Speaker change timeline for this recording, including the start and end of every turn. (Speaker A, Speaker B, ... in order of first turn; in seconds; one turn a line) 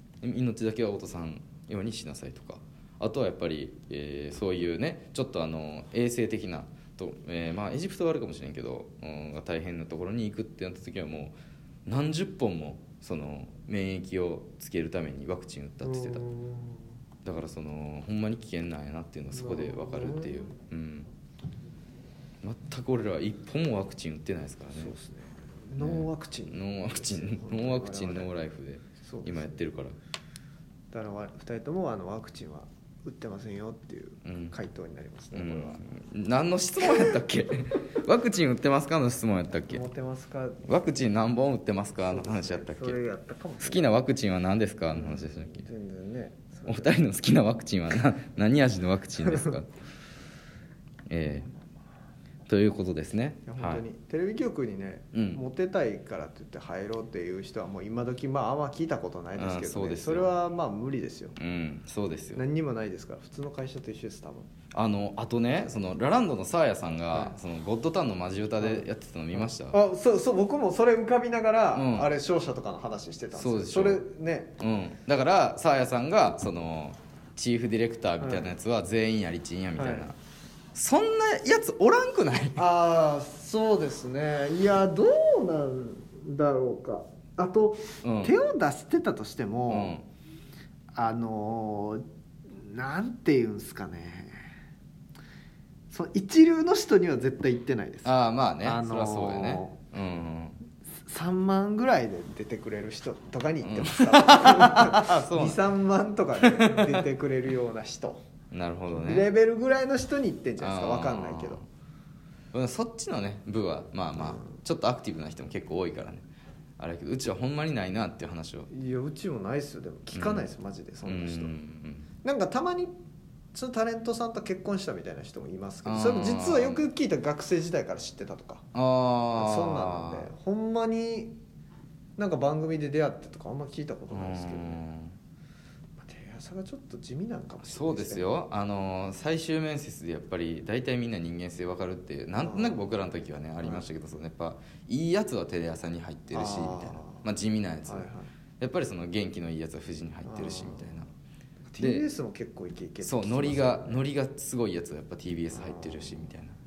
Speaker A: 0.2-16.2
Speaker B: 15.8-16.9
Speaker A: 17.2-21.1
Speaker B: 19.3-20.5
Speaker A: 22.4-24.9
Speaker B: 24.7-28.3
Speaker A: 25.8-29.9
Speaker B: 29.0-29.6
Speaker B: 30.9-35.8
Speaker A: 34.2-34.5
Speaker A: 35.3-39.8
Speaker B: 36.8-37.1
Speaker B: 39.6-40.7
Speaker A: 40.6-43.0
Speaker B: 42.0-43.9
Speaker A: 43.6-45.6
Speaker B: 44.9-47.0
Speaker A: 46.7-49.7
Speaker B: 49.2-49.6
Speaker A: 51.1-51.5
Speaker A: 52.5-53.8
Speaker B: 53.5-61.4
Speaker A: 55.1-55.4
Speaker A: 59.4-60.3
Speaker A: 61.4-62.4
Speaker B: 62.3-64.5
Speaker A: 64.7-69.8
Speaker B: 67.1-67.4
Speaker B: 68.6-74.5
Speaker A: 71.8-72.1
Speaker A: 73.3-74.0
Speaker A: 74.6-80.2
Speaker B: 78.2-78.5
Speaker B: 79.8-80.1
Speaker A: 80.7-82.6
Speaker B: 82.5-90.0
Speaker A: 88.0-88.3
Speaker A: 89.7-90.0
Speaker B: 90.9-94.3
Speaker B: 95.9-99.8
Speaker A: 98.0-100.6
Speaker B: 101.0-108.2
Speaker A: 103.6-105.6
Speaker A: 106.4-107.0
Speaker A: 108.5-109.3
Speaker B: 108.9-111.6
Speaker A: 110.6-111.7
Speaker A: 112.5-116.2
Speaker B: 114.2-114.4
Speaker A: 116.8-118.7
Speaker B: 118.7-121.5
Speaker A: 120.1-120.5
Speaker A: 121.0-122.1
Speaker B: 122.2-122.9
Speaker B: 123.5-128.6
Speaker A: 125.8-126.9
Speaker A: 128.7-130.3
Speaker B: 129.3-131.3
Speaker B: 132.2-134.8
Speaker A: 134.1-135.1
Speaker B: 136.0-138.3
Speaker A: 137.6-151.1
Speaker B: 142.4-142.9
Speaker B: 143.6-143.9
Speaker B: 146.3-147.2
Speaker B: 147.8-148.3
Speaker B: 150.2-151.0
Speaker B: 151.7-154.0
Speaker A: 151.8-152.1
Speaker A: 153.0-156.5
Speaker B: 155.5-156.3